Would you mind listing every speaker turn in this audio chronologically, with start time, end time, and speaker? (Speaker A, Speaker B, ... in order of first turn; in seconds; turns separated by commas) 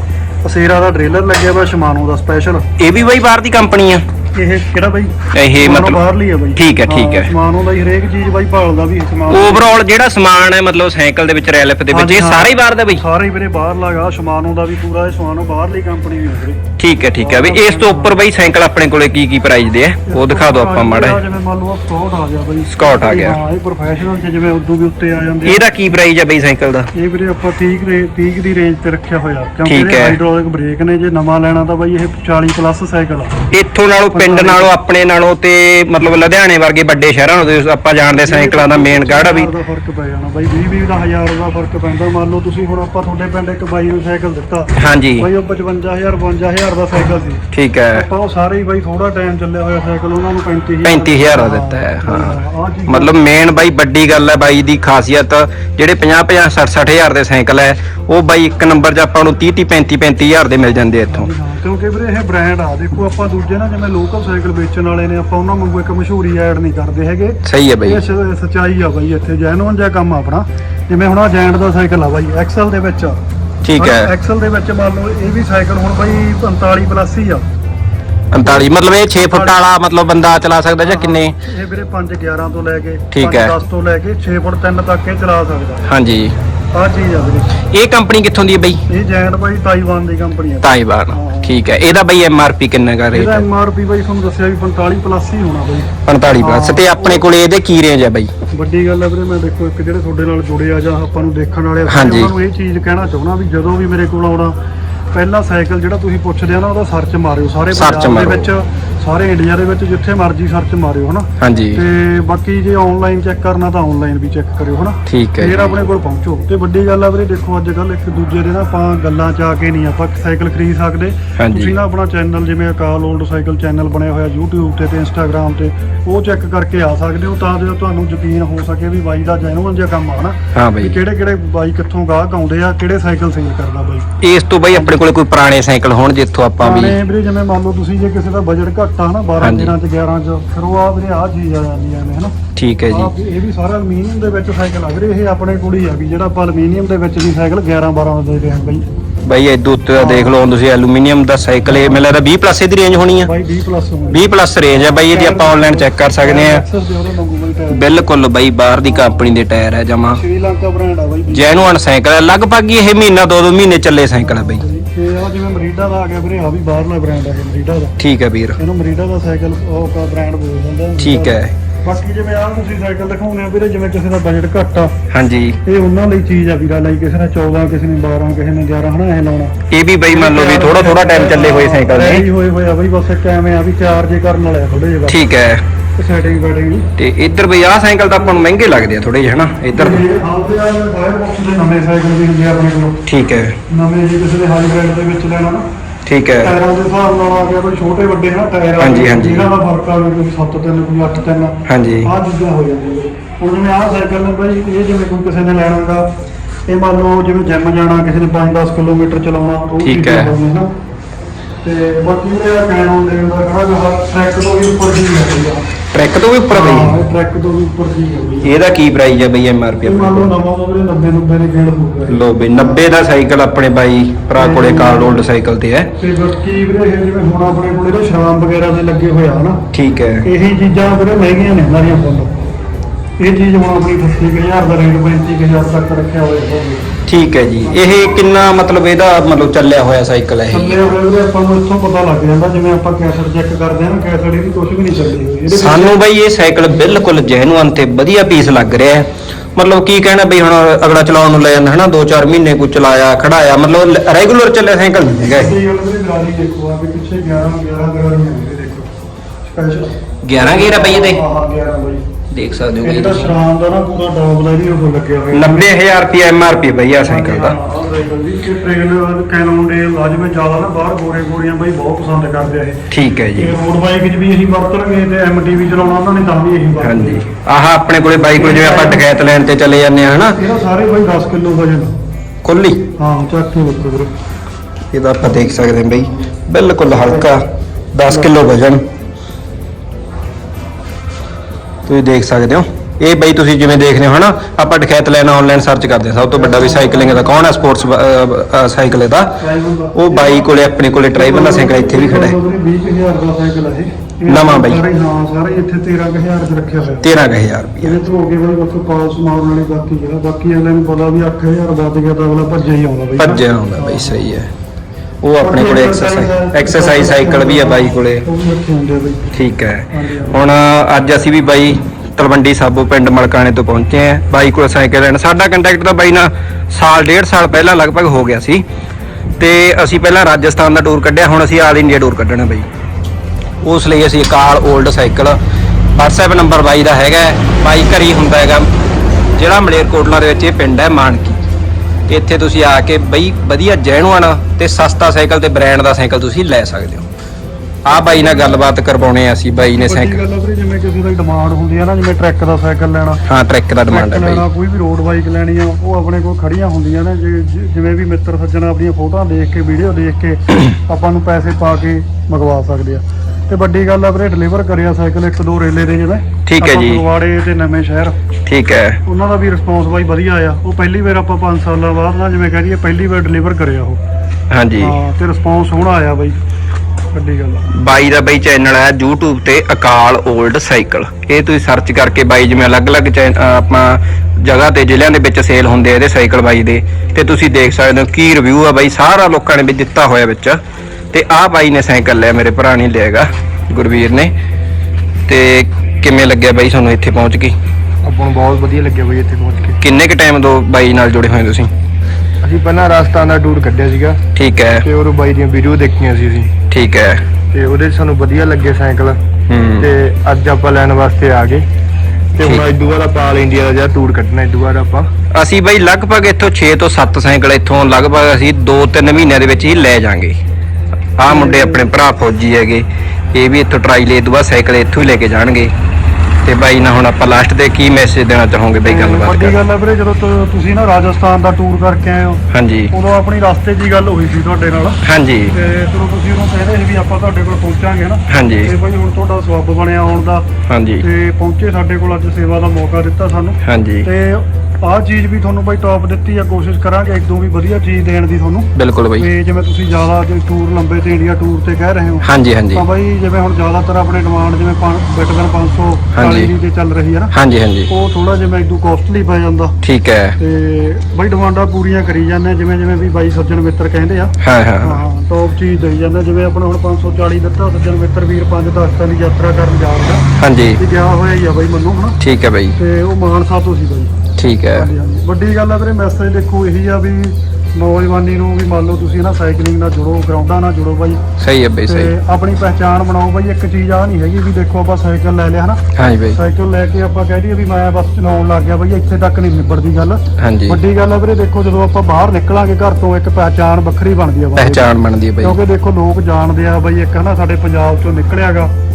Speaker A: 0.4-2.7, Speaker B: 2.8-4.0, Speaker A: 4.3-9.8, Speaker B: 5.3-6.0, Speaker B: 6.5-7.3, Speaker B: 9.3-13.0, Speaker A: 11.9-16.6, Speaker B: 16.8-21.2, Speaker A: 17.2-18.1, Speaker A: 20.1-25.6, Speaker B: 22.7-23.4, Speaker B: 25.4-26.9, Speaker A: 26.9-33.4, Speaker B: 29.6-30.2, Speaker B: 33.5-39.5, Speaker A: 34.1-34.7, Speaker A: 38.2-53.1, Speaker B: 44.8-45.3, Speaker B: 47.5-48.0, Speaker B: 50.8-61.3, Speaker A: 61.1-73.2, Speaker B: 67.4-68.0, Speaker B: 73.6-74.1, Speaker A: 73.8-77.4, Speaker B: 78.3-81.3, Speaker A: 78.4-79.6, Speaker A: 80.8-85.8, Speaker B: 83.1-83.5, Speaker B: 85.9-86.3, Speaker A: 86.7-87.6, Speaker B: 87.7-88.8, Speaker A: 88.9-91.6, Speaker B: 90.6-93.5, Speaker A: 93.1-97.2, Speaker B: 96.0-98.3, Speaker A: 98.5-104.5, Speaker B: 101.9-102.3, Speaker A: 105.1-134.1, Speaker B: 107.7-108.5, Speaker B: 111.4-111.8, Speaker B: 115.1-115.9, Speaker B: 121.4-121.8, Speaker B: 130.5-131.0, Speaker B: 134.2-137.0, Speaker A: 134.7-135.0, Speaker A: 136.6-142.3, Speaker B: 139.4-139.7, Speaker B: 142.6-143.1, Speaker A: 142.9-148.8, Speaker B: 149.2-153.3, Speaker A: 149.9-150.4, Speaker A: 153.2-154.2, Speaker B: 154.1-156.6, Speaker A: 154.8-157.8, Speaker B: 157.7-160.2, Speaker A: 158.8-159.2, Speaker A: 160.1-161.5, Speaker B: 161.3-164.6, Speaker A: 164.2-167.9, Speaker B: 168.0-168.6, Speaker A: 168.6-174.9, Speaker B: 171.0-171.5, Speaker B: 175.1-175.6, Speaker A: 175.6-179.6, Speaker B: 179.7-182.2, Speaker A: 180.1-185.3, Speaker B: 185.1-185.6, Speaker A: 186.0-186.9, Speaker B: 187.0-190.0, Speaker A: 189.7-193.0, Speaker B: 193.1-193.6, Speaker A: 193.7-195.6, Speaker B: 196.1-196.6, Speaker A: 196.4-206.1, Speaker B: 198.8-199.5, Speaker B: 201.7-202.1, Speaker A: 206.7-210.7, Speaker B: 209.8-210.3, Speaker A: 211.6-215.7, Speaker B: 215.9-217.0, Speaker A: 216.5-218.5, Speaker B: 218.4-220.3, Speaker A: 219.8-222.8, Speaker B: 222.1-225.9, Speaker A: 224.3-225.2, Speaker A: 226.0-229.6, Speaker B: 229.7-230.3, Speaker A: 230.2-232.4, Speaker A: 233.2-236.9, Speaker B: 237.1-240.8, Speaker A: 240.5-246.0, Speaker B: 245.5-255.5, Speaker A: 255.2-258.9, Speaker A: 259.4-262.0, Speaker B: 260.2-261.2, Speaker B: 262.3-263.4, Speaker A: 262.8-265.7, Speaker B: 265.3-267.6, Speaker A: 267.0-272.8, Speaker B: 272.9-273.5, Speaker A: 273.3-277.2, Speaker B: 276.8-280.4, Speaker A: 278.2-279.1, Speaker A: 280.3-281.9, Speaker B: 282.4-282.9, Speaker A: 282.9-284.1, Speaker B: 284.9-287.4, Speaker B: 287.9-288.8, Speaker B: 291.9-299.4, Speaker A: 296.3-297.4, Speaker A: 299.4-300.5, Speaker B: 299.9-302.4, Speaker A: 301.1-307.1, Speaker B: 304.3-304.8, Speaker B: 307.0-308.0, Speaker A: 307.8-314.2, Speaker B: 313.2-314.5, Speaker B: 315.2-318.2, Speaker A: 315.4-319.3, Speaker B: 319.3-328.6, Speaker A: 319.9-320.4, Speaker B: 329.4-332.6, Speaker B: 333.6-335.4, Speaker B: 335.9-338.7, Speaker B: 339.4-341.4, Speaker B: 342.1-347.1, Speaker B: 347.9-350.2, Speaker A: 347.9-348.6, Speaker A: 349.6-353.2, Speaker B: 353.2-354.4, Speaker A: 353.9-368.2, Speaker B: 366.4-367.0, Speaker B: 368.5-369.0, Speaker A: 369.1-374.0, Speaker B: 374.5-375.0, Speaker A: 374.8-376.4, Speaker A: 377.1-377.7, Speaker B: 377.7-390.6, Speaker B: 391.1-394.3, Speaker B: 395.3-397.5, Speaker C: 398.0-399.8, Speaker B: 399.8-401.7, Speaker C: 402.4-404.2, Speaker B: 404.3-404.9, Speaker C: 404.8-406.6, Speaker B: 406.7-407.2, Speaker C: 407.5-409.2, Speaker B: 409.5-409.9, Speaker C: 409.8-411.7, Speaker C: 412.3-415.1, Speaker B: 412.4-412.6, Speaker B: 415.3-420.4, Speaker B: 421.2-425.7, Speaker A: 421.2-421.9, Speaker B: 426.4-429.6, Speaker A: 428.8-435.0, Speaker B: 432.5-432.9, Speaker B: 435.0-435.5, Speaker A: 435.5-440.5, Speaker B: 438.3-438.7, Speaker B: 440.7-441.1, Speaker A: 441.0-457.3, Speaker B: 443.6-444.1, Speaker B: 448.7-449.3, Speaker B: 452.2-452.8, Speaker B: 456.1-456.5, Speaker B: 457.3-457.9, Speaker A: 457.9-459.7, Speaker B: 459.8-460.4, Speaker A: 460.4-470.2, Speaker B: 464.4-465.0, Speaker B: 470.4-470.8, Speaker A: 470.8-472.2, Speaker B: 472.2-472.8, Speaker A: 472.8-474.1, Speaker B: 474.4-474.9, Speaker A: 474.7-481.2, Speaker B: 481.4-482.1, Speaker A: 481.9-485.8, Speaker B: 485.9-486.4, Speaker A: 486.3-494.9, Speaker B: 490.4-490.8, Speaker B: 494.6-495.6, Speaker A: 495.4-498.7